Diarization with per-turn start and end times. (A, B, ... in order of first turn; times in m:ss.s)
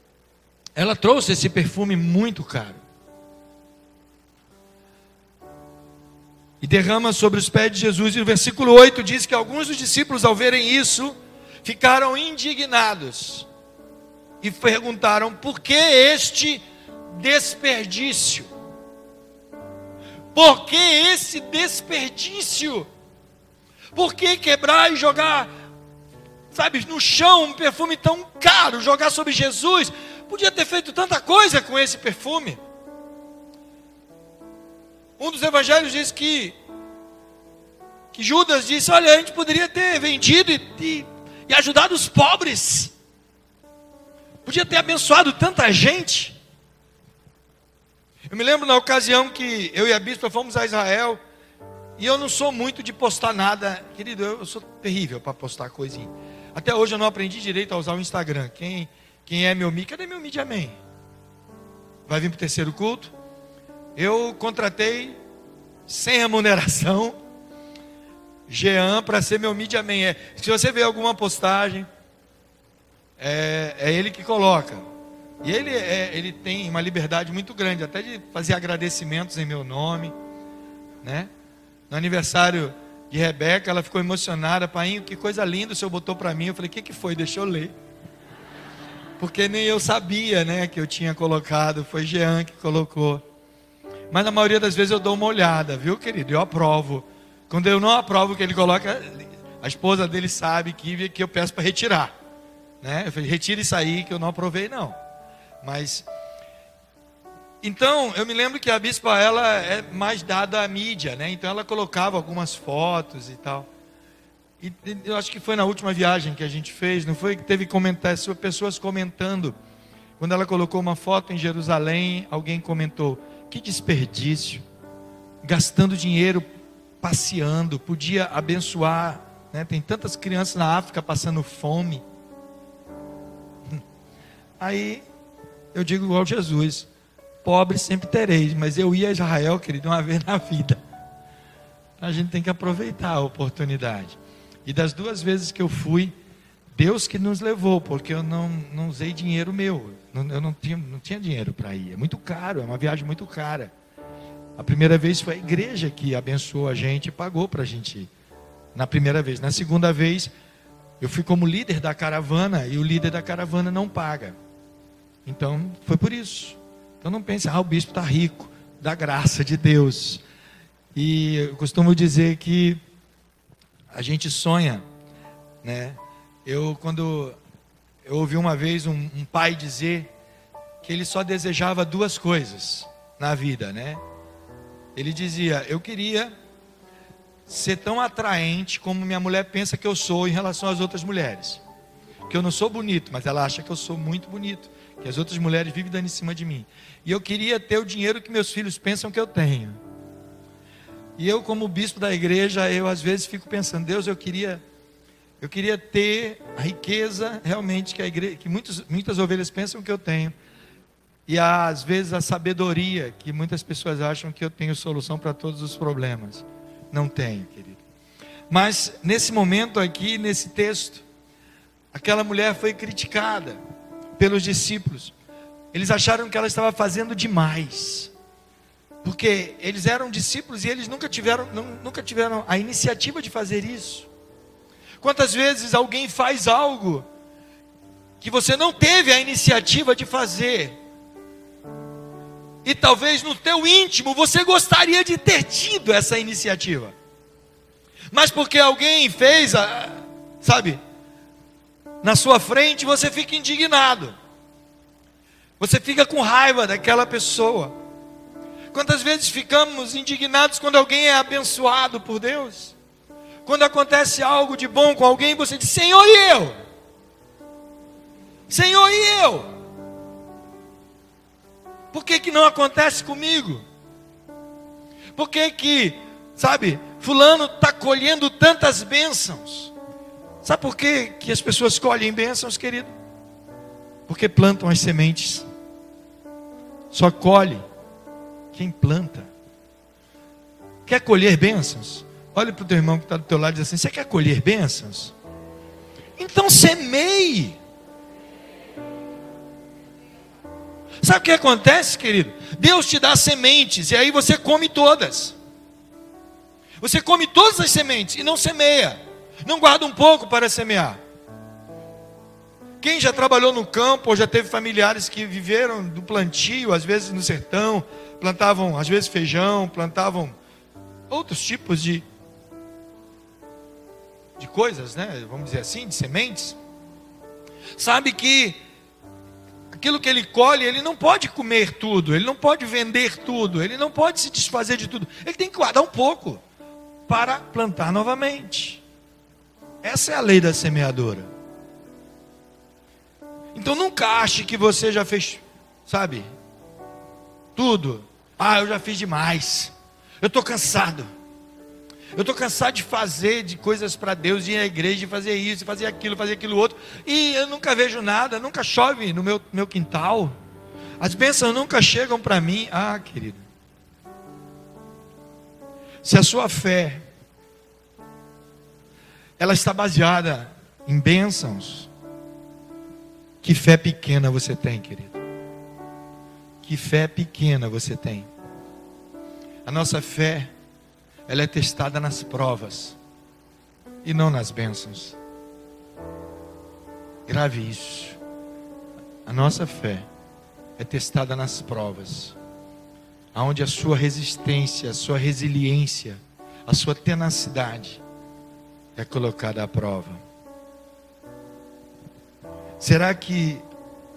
0:00.8-0:02.8 A
0:06.6-0:13.5 A
0:14.4-0:18.5 A
0:20.3-0:22.9 A
0:23.9-0:25.5 A
0:26.5-0:32.6 A
0:35.2-0:36.6 A
0:38.1-0:42.9 A
0:44.4-0:46.4 A
0:48.3-0:51.2 A
0:52.0-1:00.8 A
1:02.1-1:03.1 A
1:04.0-1:05.2 A
1:05.9-1:07.2 A
1:08.5-1:11.9 A
1:13.2-1:14.8 A
1:15.4-1:20.1 A
1:21.0-1:21.3 A
1:21.9-1:27.7 A
1:29.2-1:33.2 A
1:34.1-1:42.1 A
1:42.8-1:45.0 A
1:45.6-1:46.0 A
1:47.6-1:53.7 A
1:54.6-1:59.5 A
2:00.2-2:04.6 A
2:05.4-2:06.4 A
2:07.0-2:12.0 A
2:14.6-2:15.0 A
2:15.7-2:16.9 A
2:17.4-2:20.8 A
2:22.0-2:26.1 A
2:26.7-2:33.7 A
2:34.6-2:38.1 A
2:38.7-2:40.3 A
2:41.0-2:44.4 A
2:45.2-2:50.2 A
2:50.9-2:52.8 A
2:53.9-2:54.8 A
2:55.6-2:57.4 A
2:58.0-3:00.1 A
3:00.8-3:04.0 A
3:04.9-3:06.3 A
3:07.5-3:11.6 A
3:12.3-3:19.8 A
3:21.2-3:24.6 A
3:25.4-3:30.3 A
3:31.3-3:37.8 A
3:38.5-3:41.0 A
3:41.9-3:43.6 A
3:44.2-3:45.1 A
3:45.7-3:48.1 A
3:49.0-3:54.1 A
3:55.0-3:57.1 A
3:58.2-4:00.8 A
4:02.6-4:06.9 A
4:08.1-4:10.8 A
4:12.0-4:14.1 A
4:15.6-4:17.7 A
4:18.7-4:22.7 A
4:23.4-4:26.5 A
4:28.5-4:29.5 A
4:31.9-4:33.6 A
4:35.2-4:39.7 A
4:40.4-4:42.9 A
4:44.1-4:45.5 A
4:46.9-4:47.6 A
4:48.5-4:49.3 A
4:50.8-4:55.1 A
4:56.2-4:57.6 A
5:01.0-5:05.4 A
5:06.8-5:11.0 A
5:12.8-5:20.4 A
5:21.1-5:22.0 A
5:24.4-5:26.6 A
5:27.8-5:28.6 A
5:29.8-5:36.4 A
5:37.1-5:38.8 A
5:39.8-5:41.3 A
5:43.5-5:46.3 A
5:47.6-5:51.1 A
5:52.1-6:00.3 A
6:01.0-6:03.4 A
6:06.0-6:07.0 A
6:09.4-6:11.9 A
6:13.4-6:15.2 A
6:16.6-6:18.3 A
6:19.6-6:20.5 A
6:21.3-6:23.0 A
6:24.0-6:25.2 A
6:27.3-6:28.2 A
6:29.2-6:30.1 A
6:30.8-6:32.4 A
6:33.3-6:38.0 A
6:39.0-6:40.2 A
6:42.8-6:43.6 A